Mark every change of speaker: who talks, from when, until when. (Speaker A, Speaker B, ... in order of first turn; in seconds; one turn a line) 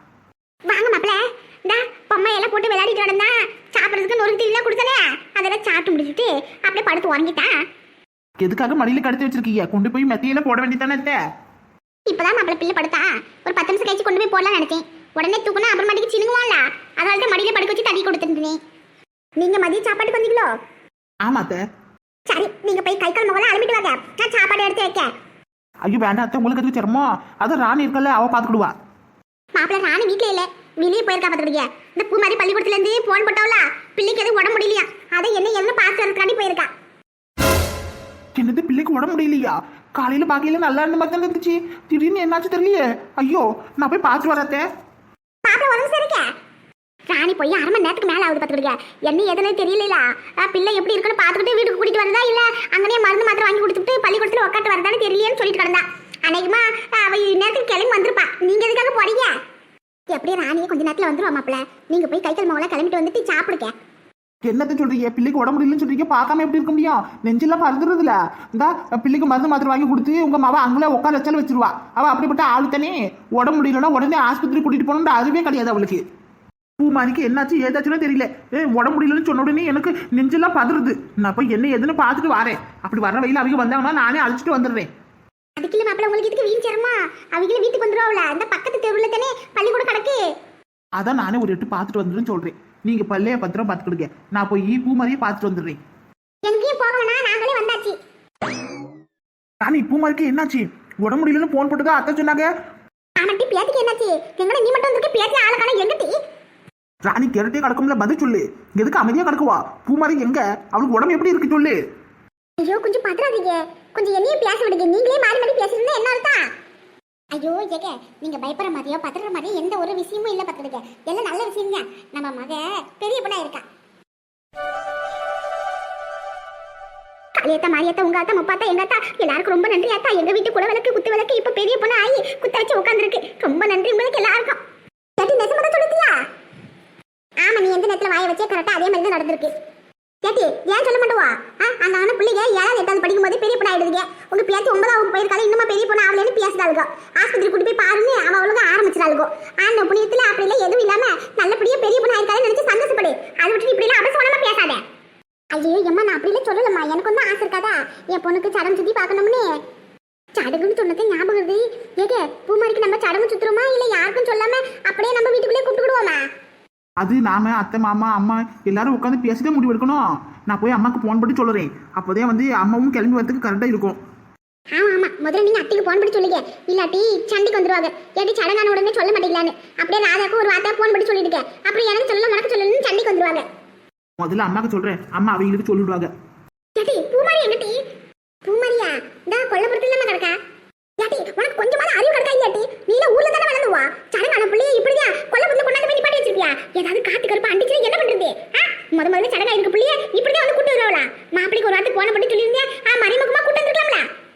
Speaker A: 0.7-7.6
Speaker B: 8.4-11.2
Speaker A: 12.1-18.6
Speaker A: 19.4-20.5
Speaker B: 21.2-21.6
Speaker A: 22.3-25.1
Speaker B: 25.8-28.7
Speaker A: 29.5-36.7
Speaker B: 38.4-44.6
Speaker A: 45.4-46.3
Speaker A: 47.1-59.3
Speaker A: 60.1-63.7
Speaker B: 64.4-76.0
Speaker B: 76.8-84.9
Speaker A: 85.6-90.2
Speaker B: 91.0-95.8
Speaker A: 96.4-98.0
Speaker B: 99.6-102.5
Speaker A: 103.2-106.2
Speaker B: 107.1-111.8
Speaker A: 112.6-116.5
Speaker A: 117.3-123.6
Speaker A: 127.4-134.6
Speaker A: 135.2-136.2
Speaker A: 137.4-139.5
Speaker A: 140.2-154.8
Speaker A: 155.5-159.6
Speaker A: 160.3-166.2
Speaker B: 167.0-174.0
Speaker A: 174.7-183.5
Speaker B: 184.2-186.1
Speaker A: 186.8-187.8
Speaker A: 188.4-190.4
Speaker A: 191.0-204.1